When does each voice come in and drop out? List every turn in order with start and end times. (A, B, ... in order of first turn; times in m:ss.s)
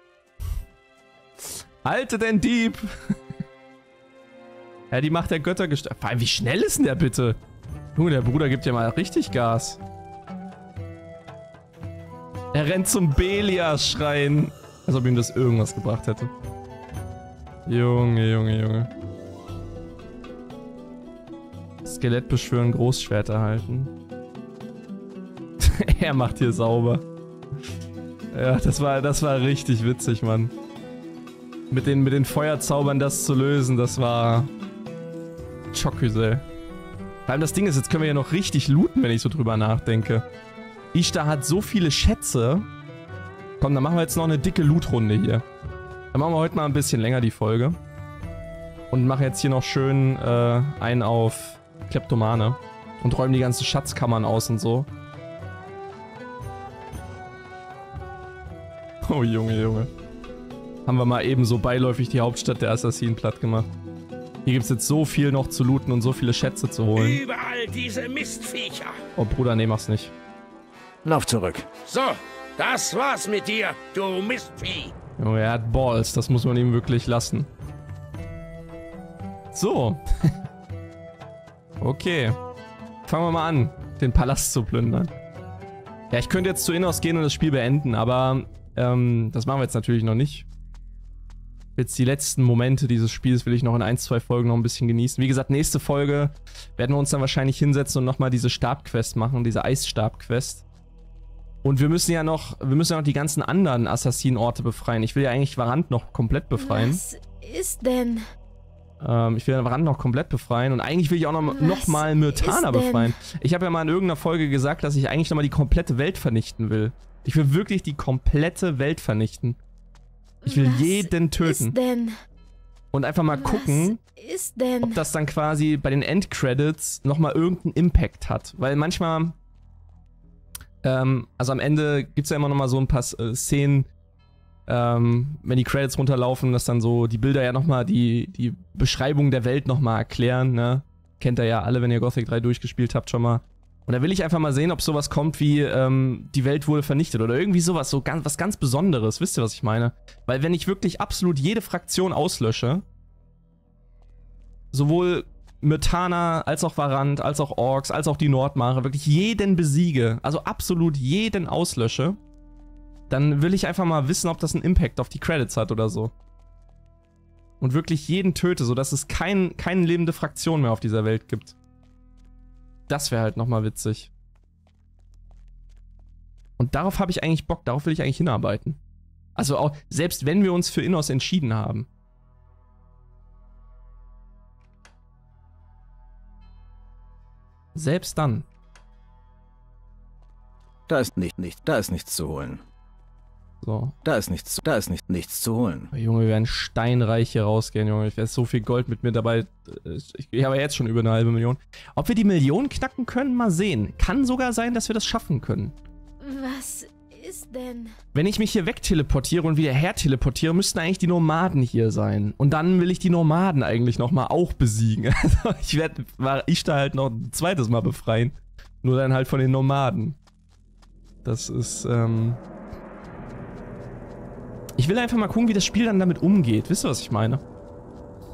0:01.8-0:03.1 A
0:04.9-0:07.4 A
0:08.0-0:09.8 A
0:12.5-0:16.3 A
0:17.7-0:18.9 A
0:21.8-0:23.9 A
0:25.6-0:27.0 A
0:28.3-0:30.5 A
0:31.7-0:34.5 A
0:35.7-0:36.4 A
0:37.3-0:40.2 A
0:40.9-0:42.7 A
0:43.6-0:45.4 A
0:46.1-0:47.8 A
0:48.9-0:54.9 A
0:59.0-0:59.9 A
1:00.9-1:03.7 A
1:04.4-1:07.2 A
1:07.2-1:08.9 B
1:09.2-1:10.1 A
1:11.0-1:11.7 C
1:11.9-1:14.7 B
1:15.2-1:17.5 A
1:19.5-1:20.3 A
1:21.8-1:22.4 A
1:23.1-1:25.1 A
1:26.1-1:30.4 A
1:31.8-1:40.6 A
1:41.6-1:47.0 A
1:46.5-1:48.2 D
1:49.0-1:59.6 A
1:51.4-1:53.2 D
2:00.4-2:02.2 D
2:00.4-2:01.7 A
2:02.9-2:04.0 A
2:03.3-2:05.0 D
2:04.8-2:09.4 A
2:10.8-2:13.9 A
2:14.7-2:32.8 A
2:34.7-2:42.2 A
2:43.1-2:46.1 A
2:47.6-2:51.5 A
2:52.9-2:54.1 A
2:56.6-2:58.8 A
2:59.4-3:01.9 A
3:07.7-3:08.4 A
3:10.9-3:12.6 C
3:13.6-3:13.9 A
3:14.0-3:15.9 C
3:15.9-3:25.7 A
3:26.2-3:27.9 D
3:28.1-3:40.2 A
3:41.2-3:42.4 A
3:44.8-3:47.4 A